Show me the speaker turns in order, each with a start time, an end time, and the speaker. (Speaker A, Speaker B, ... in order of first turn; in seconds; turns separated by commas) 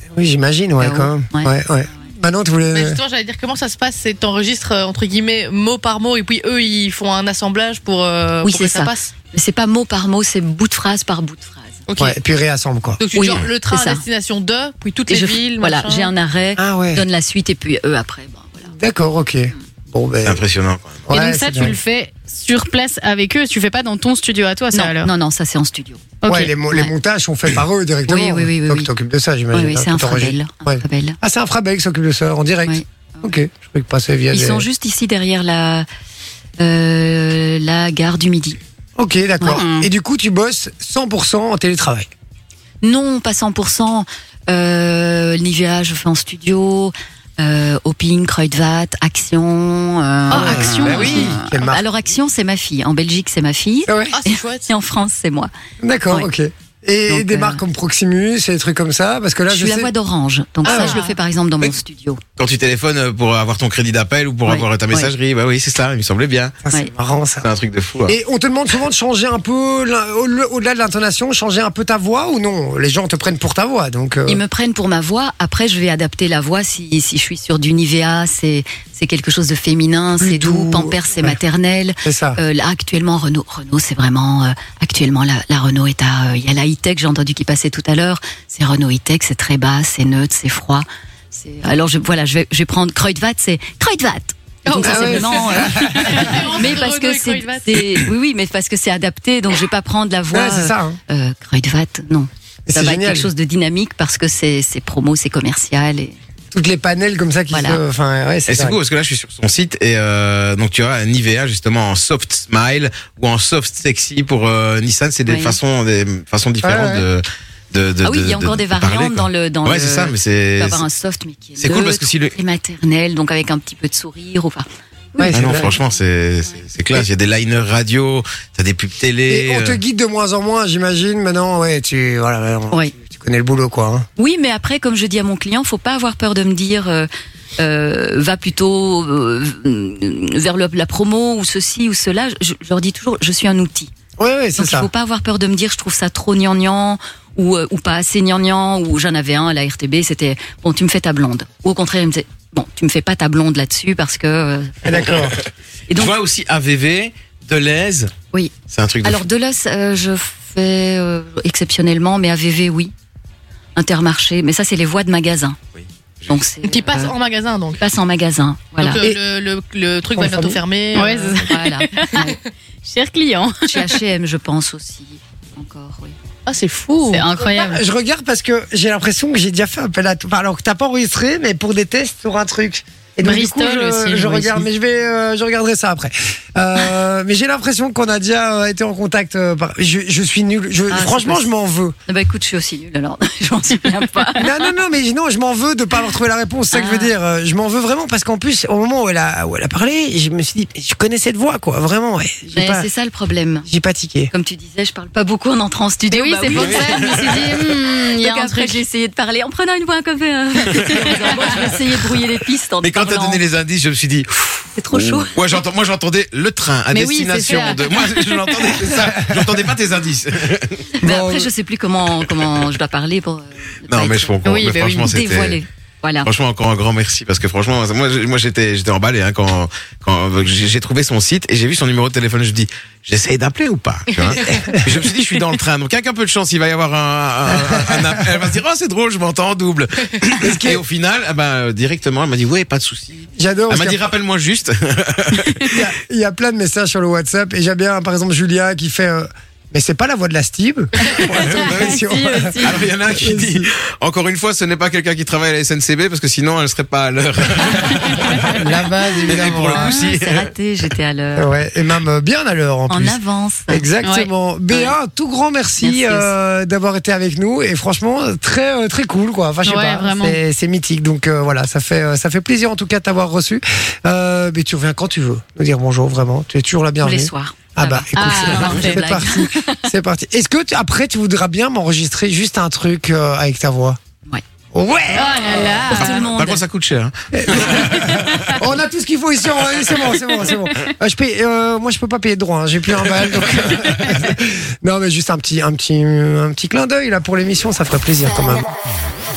Speaker A: 0.1-3.0, Speaker B: 0.8-2.1, Speaker C: 2.7-9.1, Speaker B: 8.4-11.8, Speaker C: 11.9-12.2, Speaker A: 12.0-13.0, Speaker C: 13.0-16.1, Speaker B: 13.1-14.0, Speaker B: 15.1-18.7, Speaker A: 16.6-17.0, Speaker A: 18.7-20.4, Speaker D: 20.2-21.1, Speaker A: 21.1-21.8, Speaker E: 21.1-25.1, Speaker B: 24.7-26.9, Speaker E: 26.2-26.5, Speaker A: 26.2-34.6, Speaker B: 28.1-28.9, Speaker B: 29.5-31.2, Speaker B: 32.6-33.4, Speaker B: 34.3-35.9, Speaker B: 36.6-38.6, Speaker A: 39.0-42.1, Speaker E: 39.5-39.9, Speaker B: 42.8-55.5, Speaker C: 50.3-51.4, Speaker A: 50.3-51.8, Speaker A: 53.9-54.1, Speaker C: 54.1-54.7, Speaker A: 55.8-59.9, Speaker B: 57.1-57.6, Speaker B: 59.5-62.2, Speaker A: 60.6-61.0, Speaker C: 60.6-61.1, Speaker D: 62.4-66.5, Speaker B: 64.5-65.1, Speaker A: 66.6-67.5, Speaker D: 67.4-68.2, Speaker A: 68.1-74.4, Speaker B: 74.2-106.2, Speaker A: 80.2-81.4, Speaker A: 82.0-82.4, Speaker C: 94.7-98.0, Speaker A: 94.7-96.4, Speaker A: 100.3-101.0, Speaker A: 102.7-103.3, Speaker A: 106.5-108.8, Speaker B: 107.5-107.8, Speaker D: 108.5-120.8, Speaker B: 115.3-115.6, Speaker A: 116.6-117.0, Speaker B: 118.0-125.8, Speaker D: 121.6-122.3, Speaker A: 125.2-125.7, Speaker D: 125.3-129.8, Speaker A: 129.3-134.1, Speaker B: 134.2-143.9, Speaker A: 144.2-144.9, Speaker B: 144.6-155.1, Speaker A: 154.8-155.4, Speaker D: 155.0-155.3, Speaker B: 155.9-156.1, Speaker D: 155.9-158.1, Speaker D: 158.7-159.3, Speaker B: 159.0-162.9, Speaker B: 163.8-165.6, Speaker D: 165.7-166.4, Speaker B: 166.2-167.2, Speaker C: 166.6-167.8, Speaker B: 167.7-169.0, Speaker C: 168.8-171.4, Speaker A: 170.1-170.6, Speaker E: 170.9-172.3, Speaker B: 171.4-172.3, Speaker C: 172.0-172.5, Speaker E: 172.8-173.9, Speaker B: 173.7-176.1, Speaker C: 176.4-177.3, Speaker E: 177.1-177.8, Speaker B: 177.4-177.7, Speaker A: 177.6-191.9, Speaker E: 183.2-184.7, Speaker B: 190.9-191.5, Speaker B: 192.1-194.5, Speaker A: 194.4-202.9, Speaker B: 196.7-197.1, Speaker B: 202.5-203.7, Speaker A: 203.6-204.3, Speaker B: 204.3-207.4, Speaker E: 206.1-208.8, Speaker D: 206.5-207.5, Speaker B: 208.1-213.4, Speaker D: 212.8-214.7, Speaker B: 214.8-215.4, Speaker D: 215.3-220.9, Speaker E: 216.9-218.8, Speaker A: 219.0-219.3, Speaker B: 221.0-224.4, Speaker A: 221.0-221.5, Speaker D: 223.9-225.6, Speaker E: 224.4-225.1, Speaker B: 225.0-226.3, Speaker D: 226.2-245.6, Speaker A: 240.4-240.8, Speaker A: 243.4-244.0, Speaker A: 245.7-253.7, Speaker D: 251.0-258.5, Speaker E: 251.5-252.8, Speaker A: 258.4-260.0, Speaker D: 259.2-260.5, Speaker B: 259.6-261.5, Speaker A: 261.4-284.0, Speaker B: 262.9-263.9, Speaker E: 264.0-264.3, Speaker B: 264.7-264.9, Speaker B: 265.8-266.4, Speaker E: 269.6-270.4, Speaker B: 277.0-279.8, Speaker E: 278.1-279.1, Speaker A: 284.7-286.0, Speaker E: 285.1-286.3, Speaker B: 285.5-286.6, Speaker D: 286.1-288.4, Speaker A: 287.3-298.7